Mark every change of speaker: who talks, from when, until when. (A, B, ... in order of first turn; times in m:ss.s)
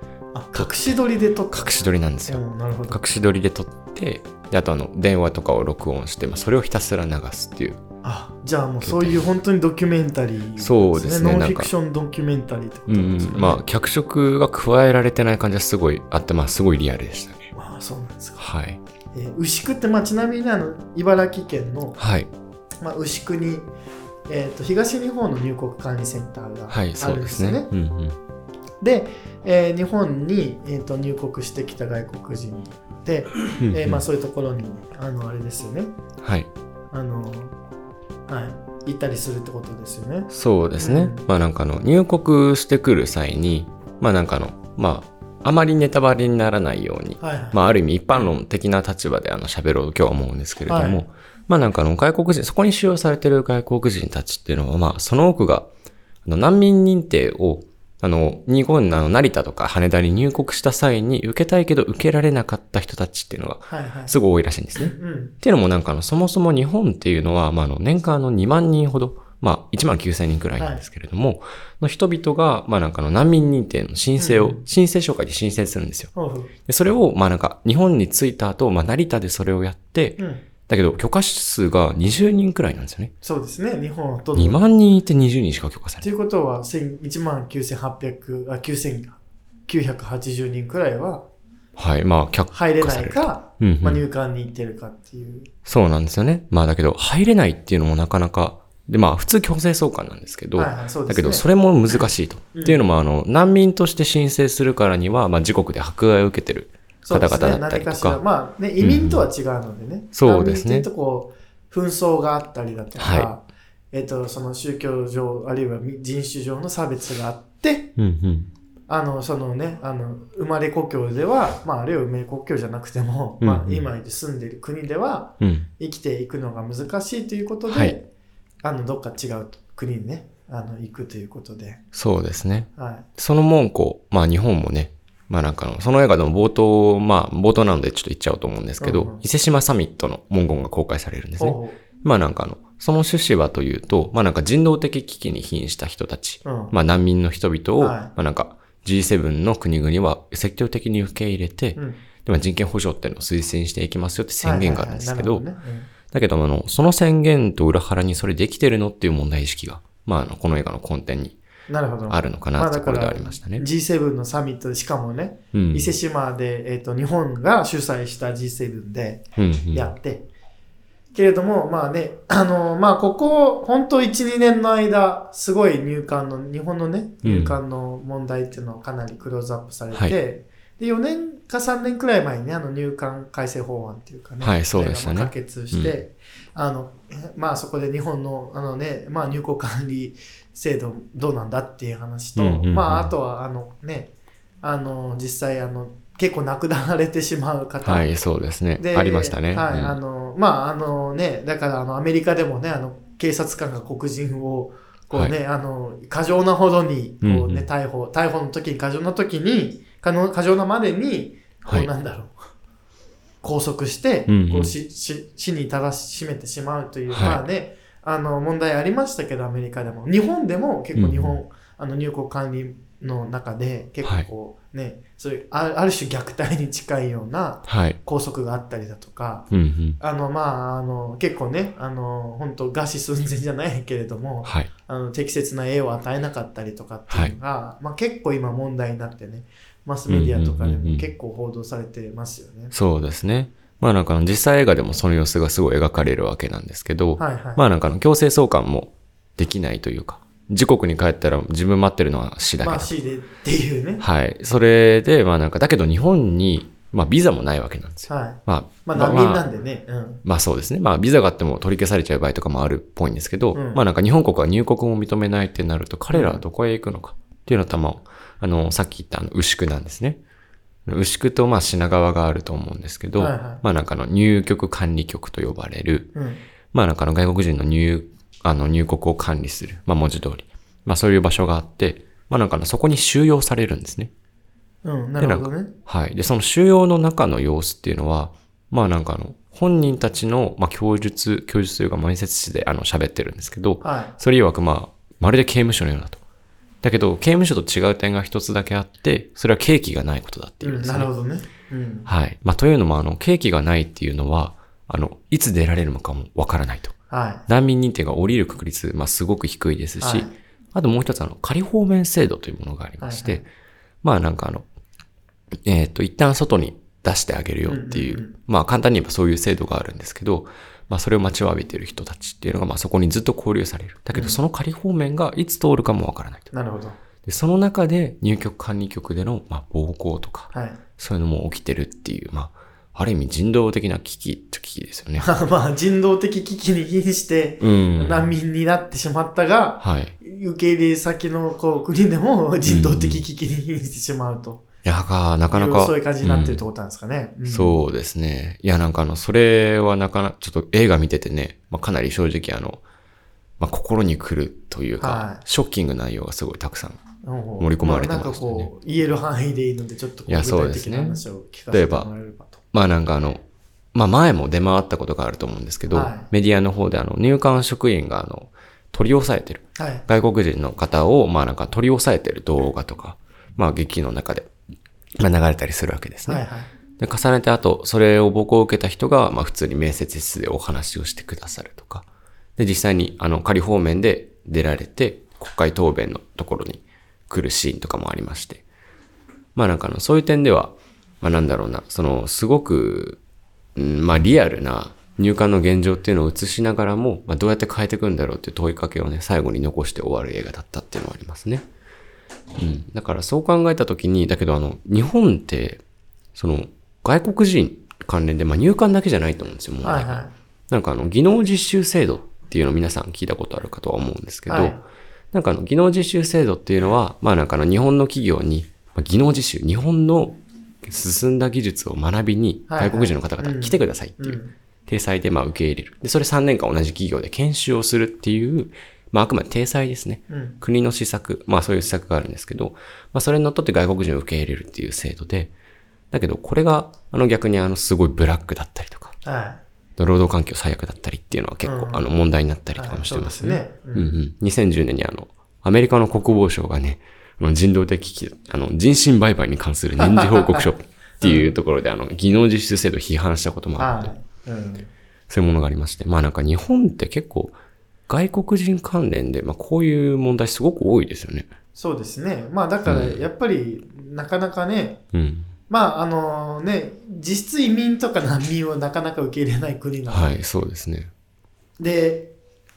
0:00.3-0:03.0 A
0:00.5-0:00.9 B
0:01.5-0:07.8 B
0:08.0-0:13.6 A
0:08.8-0:09.2 B
0:10.6-0:11.7 B
0:12.9-0:17.5 B
0:17.5-0:18.4 A
0:18.4-0:18.8 B
0:19.1-0:22.0 A
0:22.0-0:22.3 B
0:22.8-0:23.7 A
0:24.3-0:27.7 A
0:26.7-0:28.2 B
0:28.8-0:35.9 A
0:33.6-0:34.0 B
0:36.2-0:36.5 B
0:36.9-0:37.5 A
0:38.3-0:41.2 A
0:40.3-0:55.7 B
0:47.2-0:47.6 A
0:50.7-0:51.0 A
0:56.2-1:16.1 B
1:03.7-1:04.1 A
1:04.8-1:05.3 A
1:10.6-1:10.8 A
1:14.2-1:14.6 A
1:16.1-1:16.5 A
1:16.6-1:23.1 B
1:20.2-1:20.4 A
1:23.2-1:24.6 A
1:24.4-1:26.1 B
1:26.0-1:31.3 A
1:31.8-1:34.0 B
1:32.5-1:35.5 A
1:35.6-1:48.2 B
1:40.5-1:42.8 A
1:47.0-1:57.9 A
1:48.8-1:49.2 B
1:50.1-1:50.9 B
1:53.0-1:53.3 B
1:58.0-1:58.5 B
1:58.9-2:08.1 A
2:03.4-2:03.8 B
2:05.4-2:05.7 B
2:07.7-2:08.0 B
2:08.6-2:11.8 A
2:11.9-2:35.4 B
2:12.8-2:13.1 A
2:18.8-2:19.2 A
2:21.4-2:21.8 A
2:26.4-2:26.7 A
2:27.8-2:28.1 A
2:31.8-2:32.0 A
2:34.4-2:35.9 A
2:36.1-2:41.4 B
2:41.7-2:50.3 A
2:42.1-2:43.6 B
2:45.5-2:45.9 B
2:49.3-2:49.9 B
2:51.1-3:14.1 A
2:57.2-2:57.6 B
3:04.4-3:06.0 B
3:12.4-3:13.1 B
3:14.6-3:18.1 A
3:17.8-3:20.0 B
3:18.8-3:32.3 A
3:27.2-3:27.7 B
3:33.4-3:49.5 A
3:34.3-3:34.7 B
3:37.1-3:37.4 B
3:40.9-3:41.3 B
3:47.6-3:48.0 B
3:49.5-3:50.0 B
3:50.0-4:02.7 A
3:54.4-3:54.7 B
4:00.1-4:01.1 B
4:02.7-4:12.9 B
4:07.2-4:07.6 A
4:12.6-4:14.0 A
4:14.0-4:19.4 B
4:18.1-4:20.2 A
4:20.2-4:30.2 B
4:23.5-4:23.8 A
4:26.1-4:26.4 A
4:30.8-4:36.1 B
4:33.2-4:33.6 A
4:36.1-4:36.4 A
4:36.7-4:44.1 B
4:44.8-4:45.7 A
4:45.2-4:56.2 B
4:53.8-4:54.1 A
4:56.8-5:01.1 B
5:00.6-5:02.1 A
5:02.0-5:06.9 B
5:07.1-5:07.4 A
5:07.5-5:13.4 B
5:10.0-5:10.3 A
5:13.0-5:13.4 A
5:14.0-5:14.7 B
5:15.6-5:26.5 B
5:17.7-5:18.3 A
5:24.1-5:24.4 A
5:26.5-5:27.0 A
5:27.2-5:35.3 B
5:30.5-5:30.8 A
5:35.2-5:44.6 A
5:37.6-5:38.3 B
5:39.8-5:40.1 B
5:42.6-5:43.2 B
5:44.8-5:46.6 B
5:45.5-5:47.8 A
5:47.4-5:52.8 B
5:53.6-5:57.0 B
5:55.0-5:55.4 A
5:57.2-6:02.6 A
5:57.6-5:58.7 B
6:00.3-6:02.1 B
6:02.7-6:03.4 B
6:03.9-6:14.5 B
6:05.9-6:06.3 A
6:09.8-6:10.0 A
6:15.2-6:16.4 B
6:16.2-6:16.7 A
6:17.0-6:22.0 B
6:22.6-6:28.6 B
6:29.5-6:33.2 B
6:33.7-6:41.6 B
6:42.6-6:45.8 B
6:46.3-6:54.8 B
6:49.8-6:50.3 A
6:54.5-6:54.8 A
6:55.3-7:15.5 B
7:02.7-7:04.5 A
7:10.3-7:10.6 A
7:16.1-7:19.2 B
7:19.2-7:19.6 A
7:20.0-7:34.1 B
7:21.6-7:22.1 A
7:22.8-7:24.1 A
7:30.0-7:30.7 A
7:31.2-7:31.6 A
7:33.8-7:34.9 A
7:35.3-7:37.6 B
7:38.1-7:41.5 B
7:41.7-7:45.0 A
7:42.8-7:43.2 B
7:45.1-7:45.5 B
7:45.7-7:50.3 A
7:50.1-7:51.1 B
7:51.8-7:52.3 A